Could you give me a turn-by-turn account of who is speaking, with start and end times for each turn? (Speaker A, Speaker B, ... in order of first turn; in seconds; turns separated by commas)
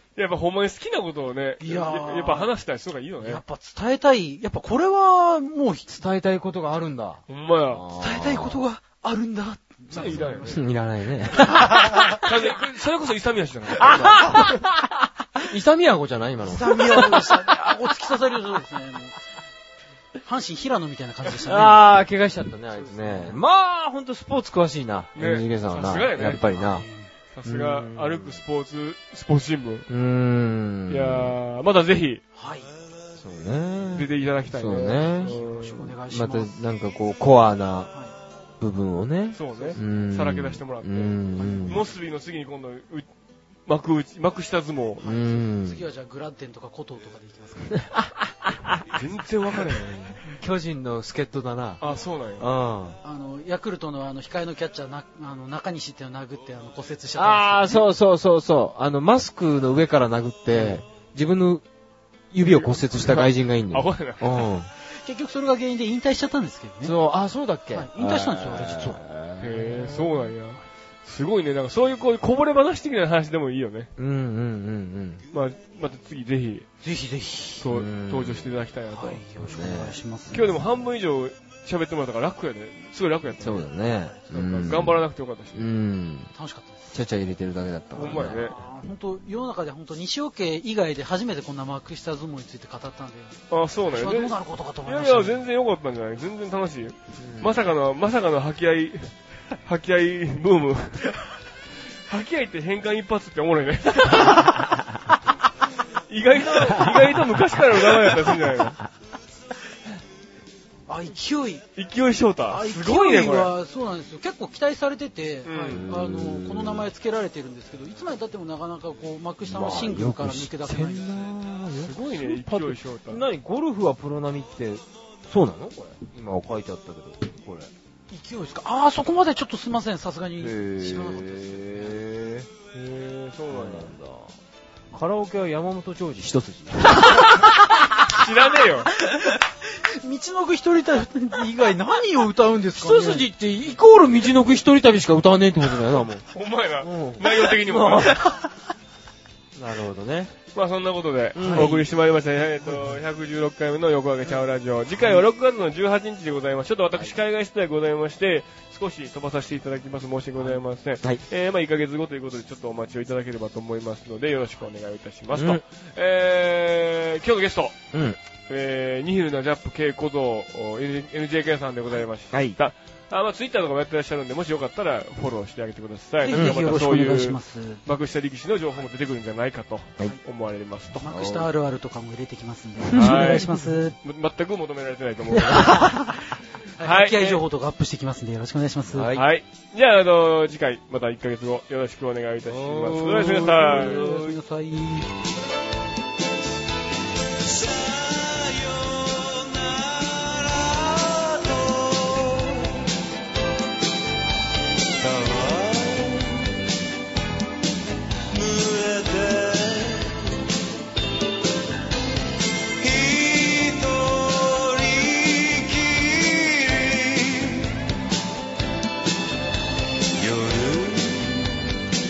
Speaker A: 0.1-3.4, Speaker B: 1.6-2.5, Speaker B: 3.2-5.9, Speaker C: 5.9-8.7, Speaker A: 7.3-7.8, Speaker B: 7.9-10.6, Speaker A: 9.9-10.6, Speaker C: 9.9-12.4, Speaker B: 11.4-12.2, Speaker A: 12.2-14.2, Speaker C: 13.8-14.8, Speaker C: 15.4-17.5, Speaker B: 16.4-19.2, Speaker B: 20.2-21.9, Speaker C: 21.3-26.9, Speaker B: 22.7-23.4, Speaker A: 25.1-26.5, Speaker B: 26.2-27.1, Speaker A: 27.3-29.9, Speaker C: 27.4-28.4, Speaker C: 29.9-31.3, Speaker A: 30.9-32.2, Speaker B: 32.3-32.7, Speaker C: 33.2-35.3, Speaker A: 33.9-35.9, Speaker B: 35.0-36.5, Speaker C: 36.1-37.9, Speaker C: 38.6-41.8, Speaker A: 39.3-43.1, Speaker B: 39.5-39.8, Speaker B: 41.4-41.9, Speaker A: 43.6-45.1, Speaker B: 45.0-47.8, Speaker C: 45.0-45.9, Speaker C: 47.9-48.8, Speaker A: 48.9-50.2, Speaker C: 50.3-51.8, Speaker A: 51.8-52.5, Speaker C: 52.4-53.0, Speaker B: 53.0-57.8, Speaker C: 57.1-61.6, Speaker B: 60.5-60.8, Speaker C: 62.3-64.7, Speaker A: 62.4-64.3, Speaker B: 64.8-67.0, Speaker C: 66.8-70.2, Speaker B: 67.7-69.0, Speaker A: 69.4-73.9, Speaker C: 74.0-75.2, Speaker A: 75.3-76.7, Speaker B: 76.8-77.7, Speaker A: 77.6-79.2, Speaker C: 77.7-78.5, Speaker B: 78.9-80.5, Speaker C: 79.4-80.0, Speaker A: 80.3-83.7, Speaker C: 83.4-86.3, Speaker A: 84.3-85.7, Speaker B: 86.3-87.0, Speaker C: 86.9-88.5, Speaker A: 87.9-88.6, Speaker B: 88.1-95.4, Speaker A: 93.5-101.2, Speaker C: 97.2-97.5, Speaker A: 102.0-104.6, Speaker A: 106.0-108.8, Speaker B: 110.9-111.7, Speaker A: 111.8-113.5, Speaker B: 112.5-121.4, Speaker A: 115.4-115.8, Speaker C: 115.7-116.9, Speaker C: 119.4-127.7, Speaker A: 121.7-123.2, Speaker B: 128.1-132.0, Speaker C: 130.4-132.5, Speaker A: 132.7-133.9, Speaker C: 133.5-134.3, Speaker C: 134.9-137.6, Speaker A: 138.1-138.9, Speaker B: 139.1-143.3, Speaker C: 142.7-146.2, Speaker A: 146.3-148.2, Speaker C: 146.8-148.2, Speaker C: 149.5-150.3, Speaker A: 150.5-167.8, Speaker C: 151.3-151.8, Speaker B: 151.4-151.8, Speaker C: 165.3-165.6, Speaker C: 167.9-168.2, Speaker A: 168.5-181.0, Speaker C: 172.3-172.6, Speaker B: 176.2-177.8, Speaker C: 176.3-176.7, Speaker B: 181.0-183.9, Speaker C: 181.0-181.5, Speaker C: 182.9-183.8, Speaker A: 182.9-185.9, Speaker C: 185.3-185.7, Speaker B: 185.7-189.1, Speaker A: 186.8-187.4, Speaker C: 188.9-189.3, Speaker A: 189.1-194.1, Speaker C: 192.4-194.3, Speaker B: 193.4-195.1, Speaker C: 205.5-205.9, Speaker C: 208.5-210.0, Speaker C: 213.6-217.4, Speaker C: 220.3-221.3